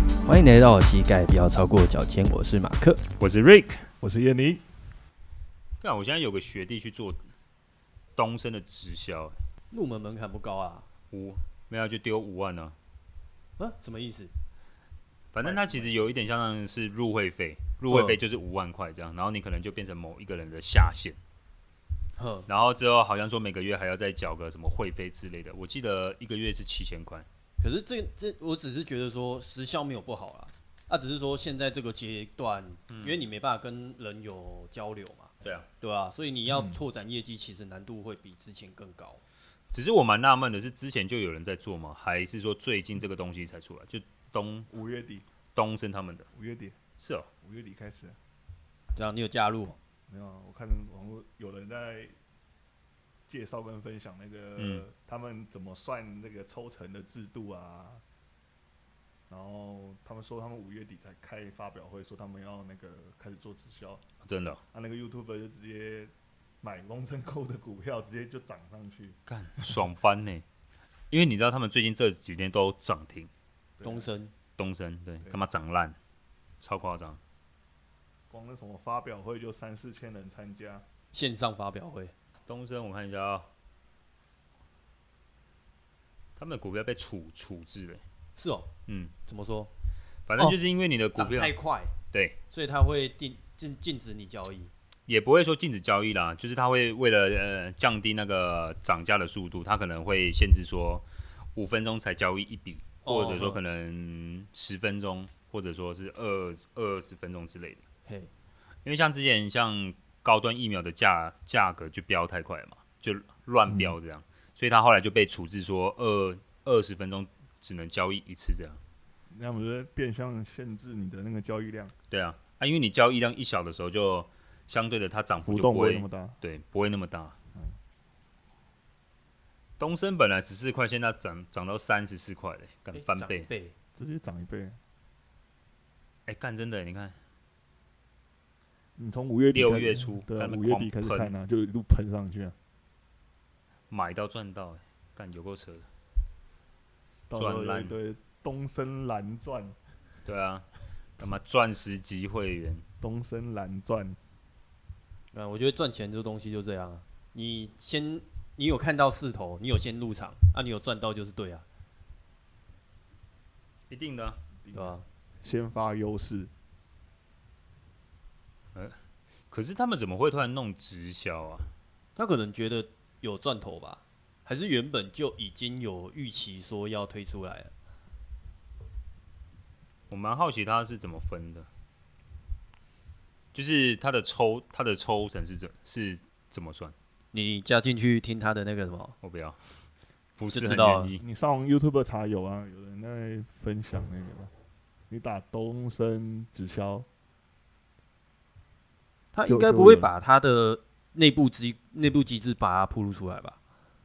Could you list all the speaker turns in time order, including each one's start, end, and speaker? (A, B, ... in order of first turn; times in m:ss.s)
0:00.2-0:03.0 A
0:03.2-0:03.9 B
0:04.0-0:04.6 C
0:05.8-0:07.2 B
0:08.2-0:09.4 B
0:09.7-0:10.9 A
0:11.1-0:12.8 B
0:13.6-0:14.3 A
0:15.3-0:21.2 B
0:15.4-0:15.9 C
0:17.9-0:18.2 A
0:22.2-0:22.5 A
0:22.5-0:27.3 B
0:27.6-0:39.2 A
0:32.9-0:33.2 B
0:39.7-0:44.7 B
0:44.7-0:45.3 C
0:45.6-0:46.3 B
0:46.3-0:46.8 C
0:47.0-0:47.3 B
0:47.4-0:48.2 C
0:49.0-0:49.8 A
0:50.1-0:52.1 C
0:53.3-0:58.0 C
0:54.6-0:54.8 B
0:59.3-1:04.0 C
1:04.2-1:04.6 B
1:04.7-1:09.2 C
1:09.3-1:10.4 B
1:11.1-1:13.3 B
1:13.8-1:14.1 C
1:13.8-1:14.3 A
1:14.6-1:16.0 B
1:16.6-1:17.2 B
1:18.3-1:20.8 C
1:21.1-1:22.1 A
1:22.5-1:23.5 B
1:26.4-1:28.0 B
1:28.4-1:28.7 A
1:28.9-1:29.1 B
1:29.2-1:29.7 A
1:30.3-1:31.5 B
1:31.2-1:31.9 A
1:32.1-1:32.4 B
1:32.5-1:34.7 A
1:35.1-1:47.8 B
1:43.0-1:43.6 A
1:48.8-1:58.8 B
1:53.7-1:54.0 C
1:59.3-2:01.9 C
2:02.1-2:07.4 B
2:05.4-2:06.4 C
2:09.8-2:13.5 B
2:12.9-2:13.8 A
2:14.0-2:14.8 C
2:16.3-2:17.2 B
2:19.0-2:22.6 C
2:19.5-2:21.3 B
2:23.9-2:25.9 B
2:27.3-2:29.8 C
2:27.3-2:28.0 B
2:30.3-2:30.7 B
2:31.2-2:32.8 B
2:33.0-2:34.2 C
2:35.3-2:41.6 A
2:43.9-2:44.4 B
2:44.6-2:46.5 C
2:44.7-2:45.0 A
2:49.5-2:51.7 B
2:52.2-2:57.7 A
3:00.1-3:01.7 B
3:03.5-3:07.0 B
3:07.3-3:09.2 A
3:09.2-3:09.6 B
3:10.4-3:11.2 B
3:10.5-3:11.1 A
3:11.2-3:14.5 C
3:15.1-3:17.1 C
3:19.3-3:23.6 A
3:19.5-3:20.1 C